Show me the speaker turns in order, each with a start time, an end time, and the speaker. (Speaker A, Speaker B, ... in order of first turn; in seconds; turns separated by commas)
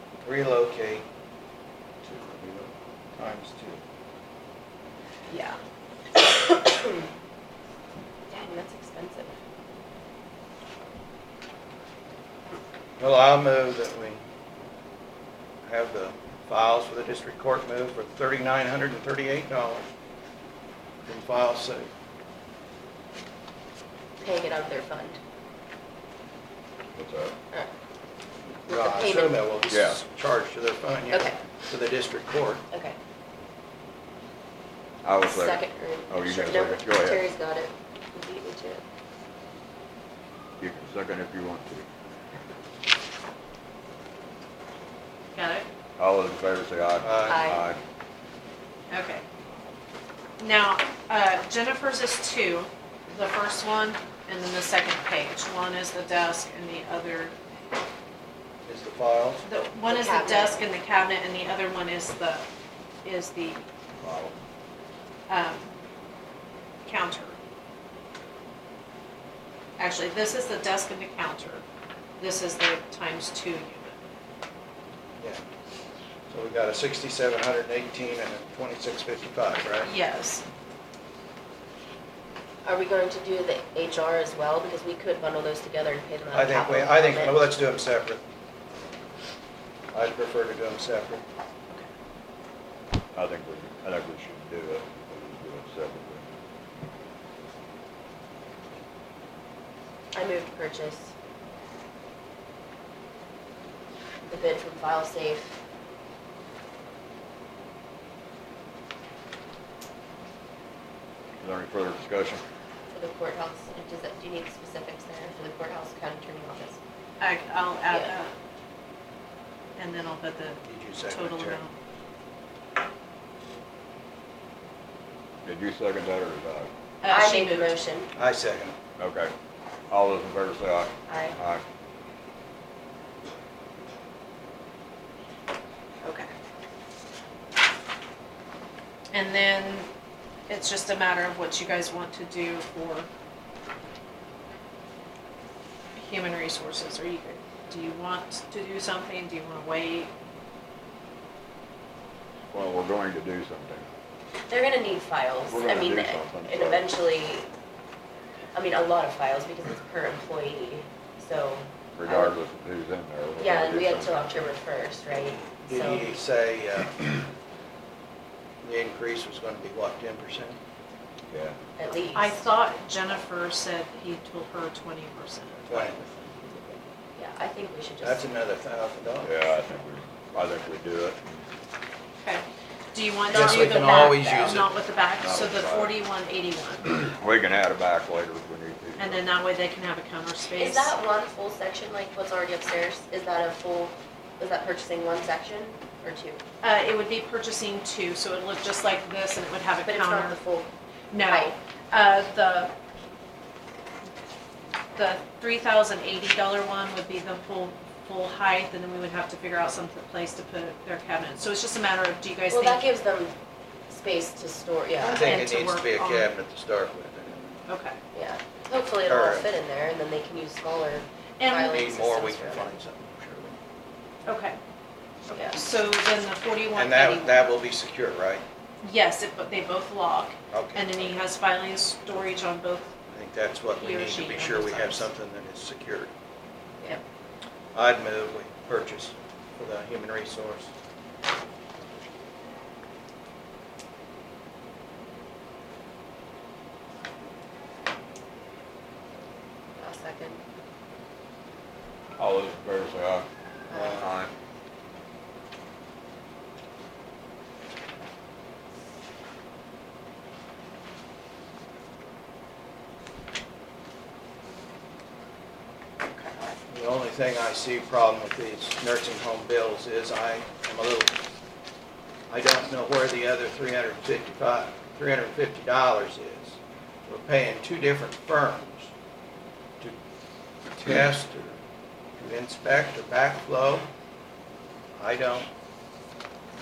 Speaker A: 0.2-1.0, Speaker A: 2.0-3.8, Speaker B: 6.1-7.1, Speaker B: 8.3-9.3, Speaker A: 13.0-14.2, Speaker A: 15.7-19.8, Speaker A: 21.1-21.9, Speaker B: 24.2-25.2, Speaker C: 26.9-27.3, Speaker B: 28.7-29.5, Speaker A: 28.7-32.6, Speaker C: 29.7-30.0, Speaker B: 31.1-31.4, Speaker B: 32.7-33.0, Speaker C: 35.0-37.2, Speaker B: 35.2-38.8, Speaker C: 40.6-41.9, Speaker D: 45.3-45.7, Speaker C: 46.0-47.8, Speaker A: 47.0-47.4, Speaker B: 47.3-47.7, Speaker D: 48.9-49.2, Speaker D: 50.4-57.4, Speaker A: 58.6-59.4, Speaker D: 59.4-62.5, Speaker B: 59.9-60.6, Speaker D: 63.0-63.6, Speaker C: 64.0-64.3, Speaker D: 65.3-65.7, Speaker D: 66.8-67.4, Speaker D: 69.8-71.6, Speaker D: 72.2-74.0, Speaker A: 76.3-79.9, Speaker D: 79.8-80.4, Speaker B: 82.6-87.4, Speaker A: 86.3-88.2, Speaker A: 89.9-91.2, Speaker C: 93.1-96.3, Speaker B: 100.1-101.1, Speaker B: 104.2-105.5, Speaker C: 111.4-112.4, Speaker B: 112.9-116.8, Speaker D: 117.2-118.3, Speaker B: 117.9-118.1, Speaker D: 119.8-121.7, Speaker A: 120.6-121.6, Speaker C: 125.4-126.7, Speaker D: 127.0-127.7, Speaker B: 127.0-128.1, Speaker A: 128.2-128.8, Speaker C: 129.0-129.3, Speaker C: 129.9-131.6, Speaker B: 131.1-131.4, Speaker D: 136.0-136.3, Speaker D: 139.1-139.9, Speaker D: 140.5-143.1, Speaker D: 146.0-150.1, Speaker C: 152.5-153.9, Speaker B: 154.5-157.5, Speaker C: 155.5-156.9, Speaker B: 158.5-162.4, Speaker C: 161.9-164.4, Speaker B: 163.4-166.1, Speaker A: 165.7-167.2, Speaker A: 168.6-170.6, Speaker C: 171.3-171.6, Speaker B: 171.8-172.5, Speaker D: 172.2-176.8, Speaker A: 175.7-176.0, Speaker B: 177.2-178.2, Speaker A: 178.0-179.3, Speaker C: 179.2-181.2, Speaker D: 182.2-186.9, Speaker A: 183.3-184.7, Speaker B: 183.3-184.5, Speaker C: 185.2-185.9, Speaker C: 186.8-189.2, Speaker D: 189.0-190.9, Speaker B: 190.5-196.4, Speaker D: 196.6-200.4, Speaker B: 199.8-200.7, Speaker D: 201.1-202.7, Speaker B: 201.2-201.6, Speaker D: 204.9-212.8, Speaker B: 212.5-213.4, Speaker B: 213.9-215.4, Speaker D: 215.0-216.3, Speaker A: 215.1-217.6, Speaker D: 217.7-218.0, Speaker B: 218.1-222.8, Speaker A: 219.1-219.5, Speaker D: 221.4-221.8, Speaker A: 221.6-223.6, Speaker D: 224.2-224.6, Speaker B: 225.3-225.6, Speaker D: 225.3-227.4, Speaker A: 226.8-228.4, Speaker D: 228.8-232.9, Speaker A: 230.5-231.1, Speaker A: 233.1-236.1, Speaker D: 233.7-235.1, Speaker A: 237.7-240.7, Speaker B: 249.8-250.4, Speaker C: 252.2-253.2, Speaker B: 253.7-254.1, Speaker C: 253.8-254.3, Speaker B: 266.1-266.6, Speaker A: 266.7-271.2, Speaker A: 272.3-278.9, Speaker A: 280.8-281.6, Speaker A: 282.2-283.9, Speaker A: 285.0-285.5